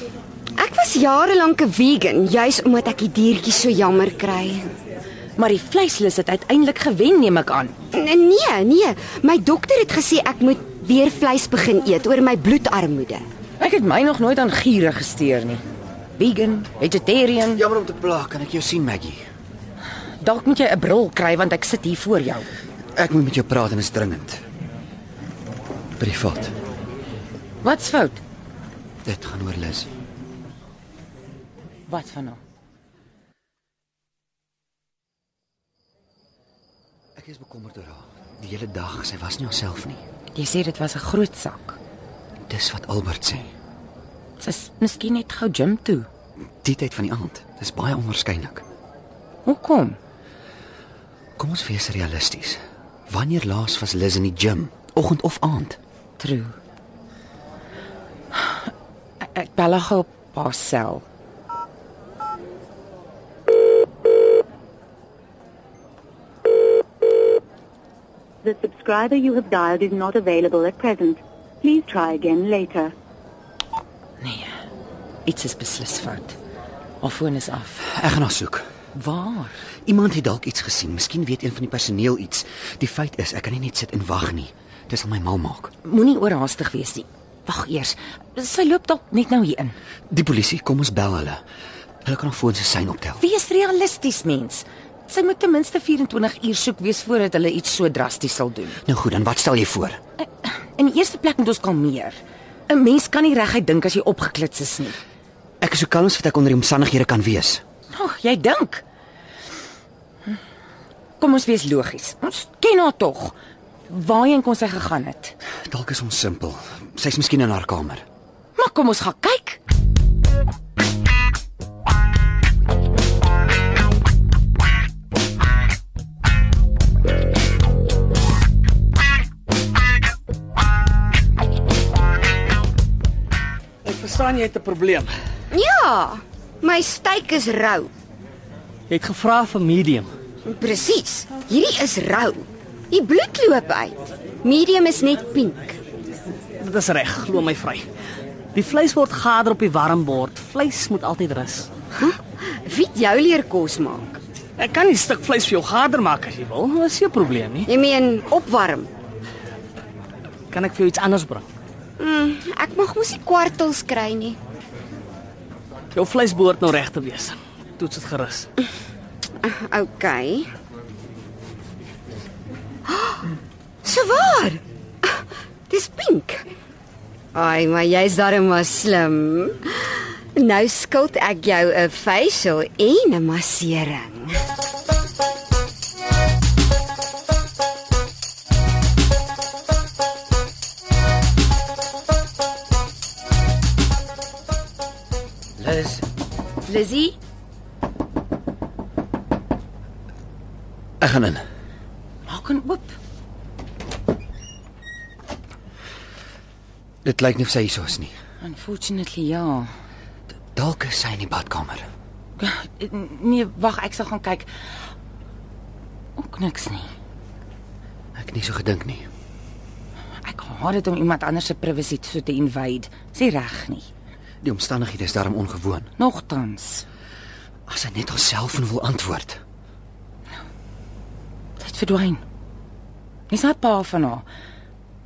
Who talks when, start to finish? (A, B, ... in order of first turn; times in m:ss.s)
0:00.6-0:04.7 A
0:05.4-0:07.7 B
0:07.9-0:13.2 A
0:13.6-0:15.6 B
0:16.2-0:17.6 B
0:17.6-0:19.2 C
0:20.2-0:22.5 B
0:23.0-0:24.4 C
0:26.0-0:26.5 C
0:27.6-0:28.2 B
0:29.0-0:29.9 C
0:31.9-0:32.4 B
0:37.2-0:40.0 C
0:40.3-0:41.8 B
0:42.5-0:43.5 C
0:44.4-0:46.1 B
0:46.6-0:48.6 C
0:49.4-0:50.0 B
0:51.4-0:55.8 C
0:56.2-0:56.6 B
0:59.2-1:01.0 B
1:08.4-1:12.9 D
1:14.2-1:14.5 B
1:15.2-1:16.4 B
1:17.0-1:17.8 B
1:17.8-1:18.6 C
1:18.9-1:19.6 B
1:19.8-1:25.7 C
1:25.8-1:29.7 B
1:30.1-1:31.4 C
1:32.0-1:33.2 C
1:33.2-1:38.8 B
1:38.8-1:40.0 C
1:40.4-1:45.0 B
1:45.6-1:47.6 C
1:47.9-1:48.8 B
1:51.2-1:53.3 B
1:53.9-1:55.3 B
1:55.7-1:58.0 C
1:58.6-1:59.6 B
2:13.8-2:15.1 E
2:15.5-2:17.9 A
2:18.9-2:20.1 E
2:20.4-2:25.8 A
2:26.6-2:27.8 E
2:28.5-2:31.7 E
2:32.0-2:34.2 A
2:34.6-2:37.7 E
2:37.7-2:38.9 A
2:40.5-2:41.4 E
2:42.0-2:44.4 A
2:45.9-2:48.5 E
2:49.4-2:50.5 A
2:52.9-2:53.2 A
2:53.8-2:56.4 A
2:57.3-3:04.4 A
3:15.6-3:16.0 C
3:16.7-3:17.2 B
3:21.0-3:21.4 C
3:22.2-3:23.0 B
3:27.0-3:28.1 C
3:28.4-3:29.7 B
3:30.5-3:31.9 C
3:32.4-3:34.5 B
3:36.2-3:36.9 B
3:38.2-3:39.1 C
3:40.2-3:43.9 B
3:44.4-3:45.9 C
3:46.0-3:46.8 B
3:47.7-3:49.4 C
3:51.6-3:52.2 B
3:53.3-3:54.2 B